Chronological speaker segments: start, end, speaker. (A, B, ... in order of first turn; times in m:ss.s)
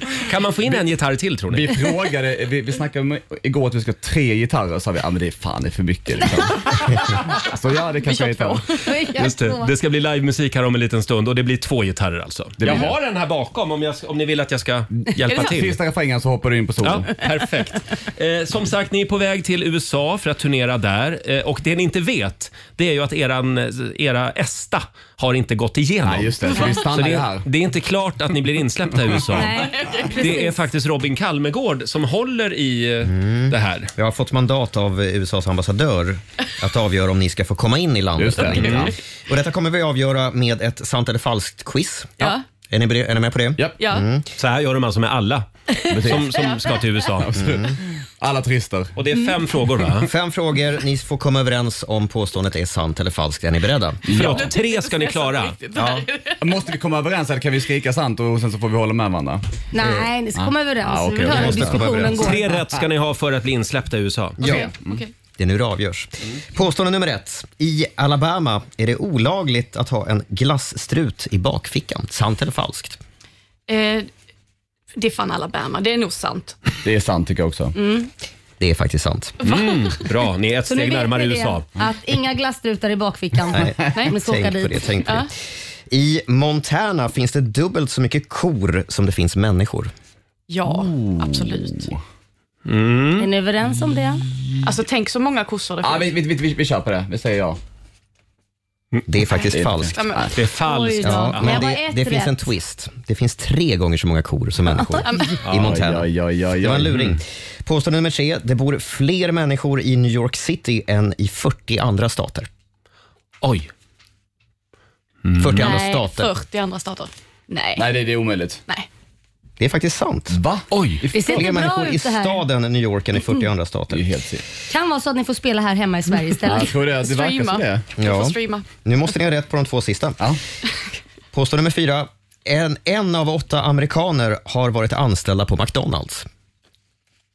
0:00.1-0:01.8 A
0:01.5-0:08.6 B
0:08.0-0:09.0 C
0:08.8-0:09.7 D
0:09.1-0:15.8 A
0:12.6-0:13.0 B
0:15.3-0:17.1 B
0:16.8-0:33.9 A
0:26.0-0:27.5 B
0:29.3-0:30.6 D
0:29.6-0:30.4 C
0:33.0-0:44.2 E
0:38.2-0:38.9 B
0:38.5-0:38.9 A
0:43.8-0:44.0 C
0:44.4-0:47.3 A
0:45.9-0:46.4 B
0:46.1-0:46.8 C
0:47.2-0:49.0 B
0:47.3-0:47.8 E
0:49.0-0:50.1 A
0:50.0-0:54.4 E
0:54.1-0:54.4 B
0:54.1-0:55.6 A
0:54.2-0:56.7 C
0:55.8-0:56.1 E
0:56.4-1:02.0 B
0:59.7-1:02.5 D
1:01.2-1:02.3 E
1:02.2-1:04.4 A
1:04.4-1:04.7 E
1:04.4-1:05.1 C
1:04.5-1:05.0 B
1:05.4-1:13.0 E
1:13.7-1:14.1 C
1:15.0-1:16.6 C
1:16.8-1:17.8 B
1:17.8-1:18.1 D
1:18.6-1:19.4 E
1:19.4-1:21.6 A
1:19.4-1:20.0 C
1:20.7-1:24.9 D
1:23.5-1:25.3 E
1:25.0-1:25.3 C
1:25.9-1:29.9 E
1:30.5-1:31.9 C
1:30.6-1:31.9 B
1:32.6-1:33.3 A
1:33.2-1:34.2 D
1:34.6-1:36.2 C
1:35.8-1:37.6 B
1:39.1-1:40.0 E
1:39.3-1:40.3 C
1:39.5-1:40.3 B
1:40.4-1:41.7 A
1:40.6-1:42.4 D
1:41.0-1:52.5 E
1:45.0-1:45.4 C
1:45.4-1:45.8 A
1:45.5-1:47.0 B
1:53.4-1:53.7 A
1:55.2-1:55.7 A
1:55.4-1:56.3 E
1:55.6-1:58.1 C
1:55.6-1:56.0 D
1:57.8-1:58.6 B
1:59.6-2:00.4 E
2:00.3-2:00.7 B
2:00.7-2:01.0 A
2:01.1-2:02.4 D
2:01.1-2:04.1 E
2:03.9-2:04.4 B
2:04.7-2:06.8 D
2:06.4-2:07.9 B
2:06.9-2:08.7 C
2:08.0-2:10.2 E
2:11.3-2:16.2 E